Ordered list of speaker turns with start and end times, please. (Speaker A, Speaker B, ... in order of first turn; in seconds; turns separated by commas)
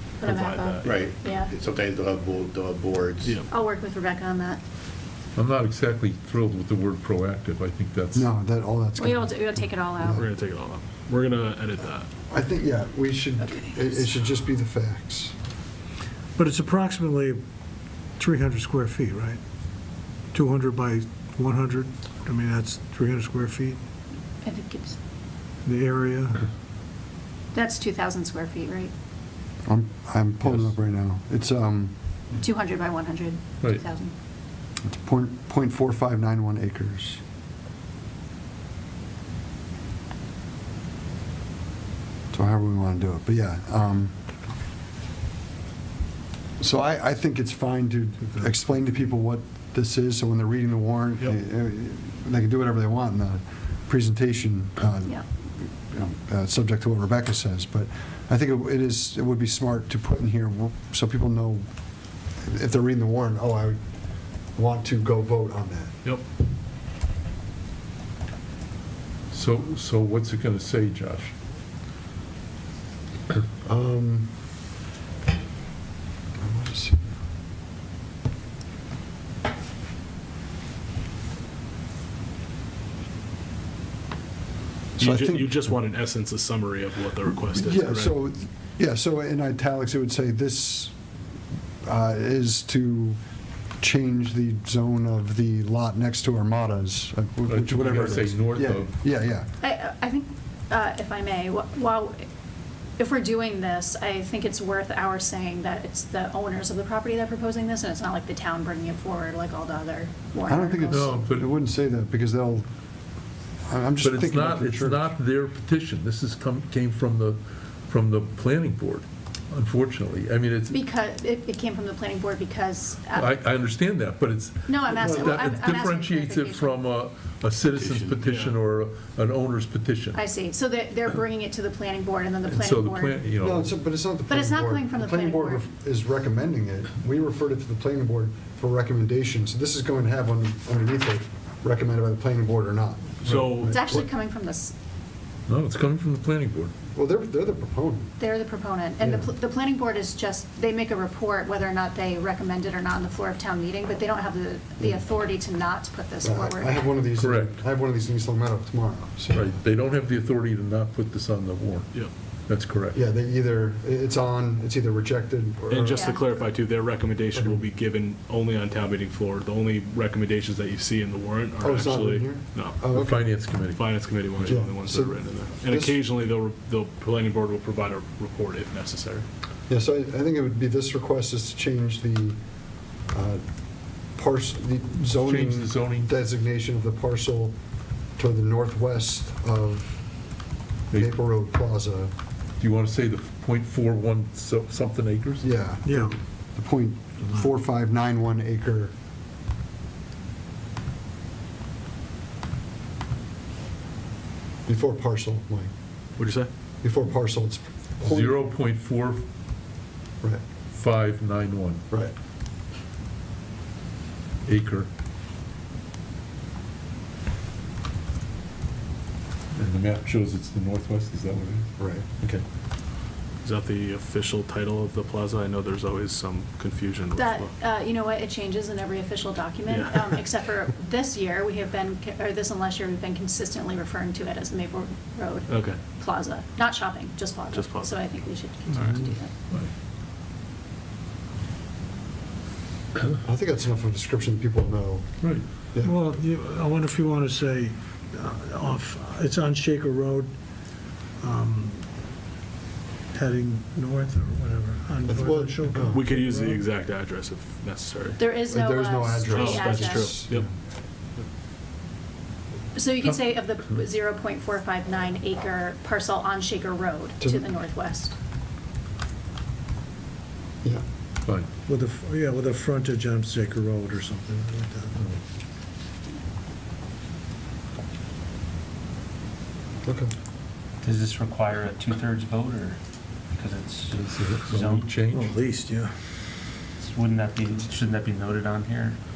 Speaker A: 0.2-0.8, Speaker B: 0.2-1.5, Speaker C: 0.8-3.4, Speaker B: 3.5-4.6, Speaker D: 5.4-8.3, Speaker E: 8.1-10.2, Speaker B: 9.0-10.2, Speaker A: 10.2-12.1, Speaker E: 12.3-15.3, Speaker B: 13.4-13.8, Speaker F: 16.4-17.4, Speaker F: 18.2-19.4, Speaker F: 20.3-23.8, Speaker B: 24.4-25.0, Speaker F: 25.6-26.4, Speaker B: 27.5-28.9, Speaker E: 29.6-31.9, Speaker B: 32.4-34.1, Speaker E: 34.8-37.2, Speaker E: 42.3-44.1, Speaker E: 46.6-61.7, Speaker E: 62.4-63.8, Speaker E: 64.5-66.0, Speaker D: 69.3-71.3, Speaker E: 73.7-74.3, Speaker E: 76.4-77.2, Speaker E: 85.0-85.7, Speaker A: 85.0-88.2, Speaker E: 87.5-91.0, Speaker E: 91.8-93.2, Speaker E: 93.8-99.5, Speaker D: 97.5-98.9, Speaker B: 99.6-102.3, Speaker B: 103.0-111.1, Speaker E: 110.5-112.7, Speaker D: 110.9-111.5, Speaker E: 113.7-115.1, Speaker D: 114.0-120.8, Speaker B: 120.7-123.4, Speaker D: 123.1-130.2, Speaker B: 124.7-126.8, Speaker E: 124.9-125.3, Speaker A: 128.0-128.5, Speaker B: 130.1-133.2, Speaker D: 132.5-133.7, Speaker E: 133.4-144.1, Speaker B: 134.3-135.7, Speaker A: 143.2-144.0, Speaker B: 143.7-144.8, Speaker D: 145.5-146.7, Speaker E: 146.9-148.1, Speaker B: 148.2-156.8, Speaker E: 149.0-149.3, Speaker E: 156.2-159.5, Speaker D: 157.2-157.6, Speaker D: 159.3-163.0, Speaker E: 162.9-166.5, Speaker A: 165.7-172.8, Speaker B: 165.9-166.2, Speaker E: 171.6-173.3, Speaker D: 172.9-174.6, Speaker A: 173.7-179.3, Speaker E: 174.4-176.0, Speaker E: 179.7-182.4, Speaker E: 183.1-183.4, Speaker E: 184.1-187.6, Speaker D: 185.1-186.1, Speaker E: 188.2-190.0, Speaker E: 190.9-192.1, Speaker D: 192.6-195.5, Speaker E: 195.4-198.9, Speaker F: 195.8-196.2, Speaker E: 204.7-205.7, Speaker A: 206.2-206.5, Speaker E: 206.8-208.5, Speaker D: 208.0-209.2, Speaker D: 210.7-211.8, Speaker D: 214.5-214.9, Speaker D: 219.6-221.7, Speaker E: 221.8-222.1, Speaker A: 223.4-227.5, Speaker B: 227.2-239.3, Speaker A: 229.7-230.2, Speaker A: 235.5-235.8, Speaker A: 237.5-238.0, Speaker A: 238.7-239.0, Speaker E: 243.1-245.1, Speaker F: 245.8-250.3, Speaker F: 251.2-251.9, Speaker F: 253.1-256.6, Speaker E: 255.1-256.0, Speaker A: 255.9-258.2, Speaker B: 258.2-260.1, Speaker E: 258.4-260.5, Speaker A: 259.3-260.5, Speaker B: 262.7-268.1, Speaker E: 267.2-267.5, Speaker F: 271.7-275.2, Speaker E: 279.8-280.1, Speaker G: 280.8-282.8, Speaker G: 283.3-284.9, Speaker D: 284.1-285.3, Speaker F: 285.1-285.9, Speaker G: 286.8-289.0